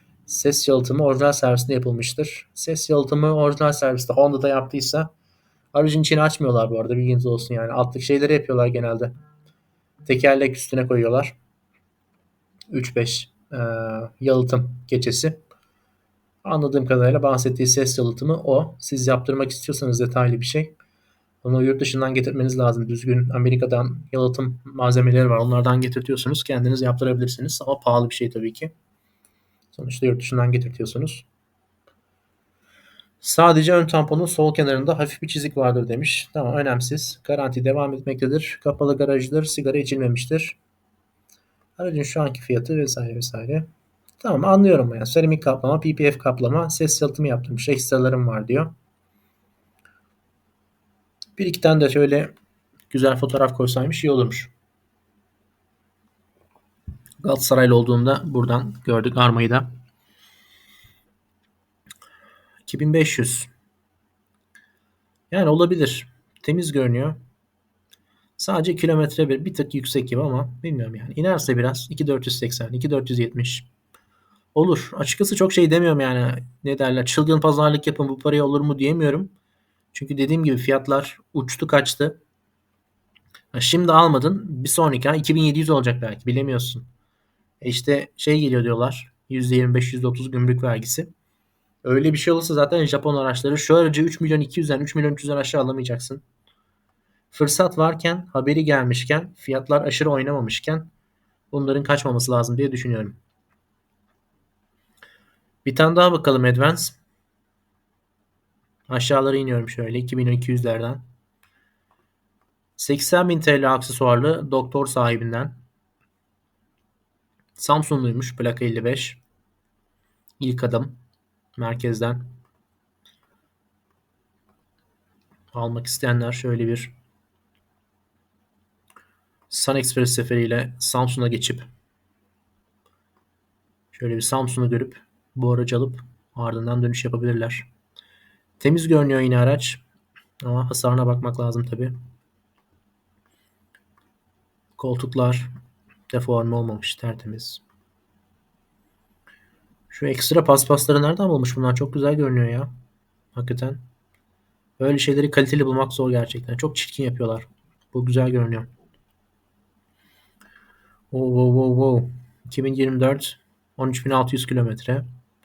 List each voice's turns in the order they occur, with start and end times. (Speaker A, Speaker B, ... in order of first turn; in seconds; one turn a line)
Speaker A: 0.3-5.1
Speaker A: 5.7-9.1
Speaker A: 10.0-11.4
Speaker A: 12.7-15.4
Speaker A: 16.4-20.7
Speaker A: 21.4-28.7
Speaker A: 29.7-31.3
Speaker A: 33.2-40.6
Speaker A: 41.8-43.7
Speaker A: 44.2-48.7
Speaker A: 51.4-52.3
Speaker A: 52.9-54.5
Speaker A: 57.2-59.7
Speaker A: 62.6-63.5
Speaker A: 65.3-67.2
Speaker A: 68.4-73.7
Speaker A: 74.5-79.3
Speaker A: 79.9-82.2
Speaker A: 83.5-86.8
Speaker A: 87.6-91.1
Speaker A: 91.8-96.2
Speaker A: 97.3-100.9
Speaker A: 101.5-103.2
Speaker A: 105.6-107.0
Speaker A: 108.9-111.0
Speaker A: 112.8-115.6
Speaker A: 117.6-119.2
Speaker A: 120.4-121.0
Speaker A: 121.5-122.3
Speaker A: 125.5-126.9
Speaker A: 129.5-131.7
Speaker A: 133.9-137.7
Speaker A: 138.6-139.8
Speaker A: 140.4-141.9
Speaker A: 144.8-145.5
Speaker A: 146.1-147.6
Speaker A: 149.9-152.7
Speaker A: 153.3-153.8
Speaker A: 154.8-158.7
Speaker A: 161.1-165.1